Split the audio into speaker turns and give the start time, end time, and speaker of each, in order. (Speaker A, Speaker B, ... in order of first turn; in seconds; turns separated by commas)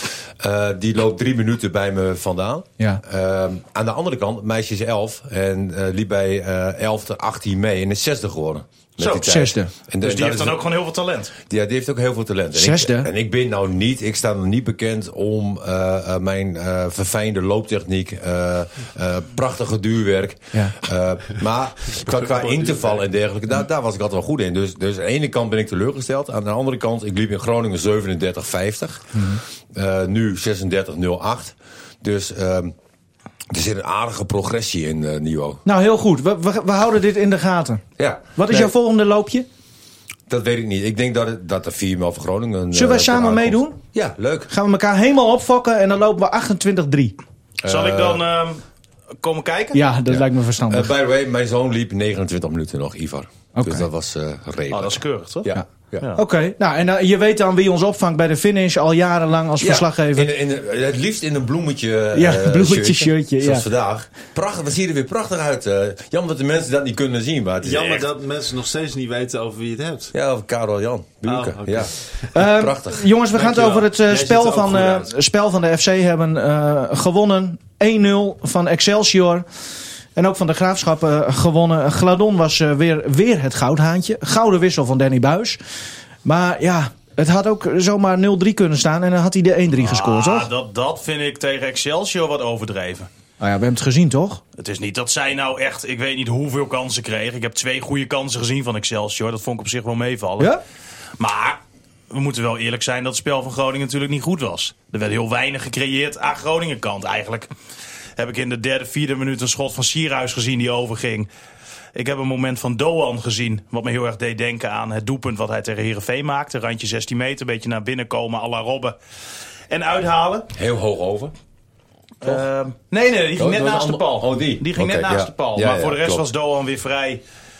Speaker A: 0.4-10.6, Speaker B: 9.0-9.3, Speaker C: 9.2-9.7, Speaker B: 10.0-11.3, Speaker A: 11.5-32.7, Speaker C: 12.5-13.1, Speaker D: 22.2-23.0, Speaker C: 29.1-29.4, Speaker A: 33.5-35.6, Speaker C: 35.6-37.8, Speaker A: 38.0-38.7, Speaker C: 38.4-39.5, Speaker A: 40.3-44.5, Speaker C: 42.7-43.8, Speaker C: 44.5-47.2, Speaker A: 47.6-48.2, Speaker B: 47.6-48.6, Speaker B: 49.2-49.8, Speaker C: 49.7-50.9, Speaker A: 50.1-56.1, Speaker C: 53.5-53.9, Speaker B: 54.7-55.5, Speaker C: 56.1-60.3, Speaker A: 59.6-68.1, Speaker C: 62.1-63.7, Speaker D: 67.6-70.1, Speaker A: 70.1-73.1, Speaker D: 71.2-72.1, Speaker C: 72.3-79.4, Speaker D: 73.3-75.1, Speaker C: 80.2-85.6, Speaker C: 86.2-90.5, Speaker B: 89.8-93.1, Speaker C: 93.4-94.4, Speaker B: 94.6-100.5, Speaker B: 101.2-101.6, Speaker B: 102.1-107.5, Speaker B: 108.2-111.3, Speaker B: 111.9-119.0, Speaker B: 119.7-120.5, Speaker A: 120.5-121.3, Speaker B: 122.2-127.2, Speaker A: 123.4-126.3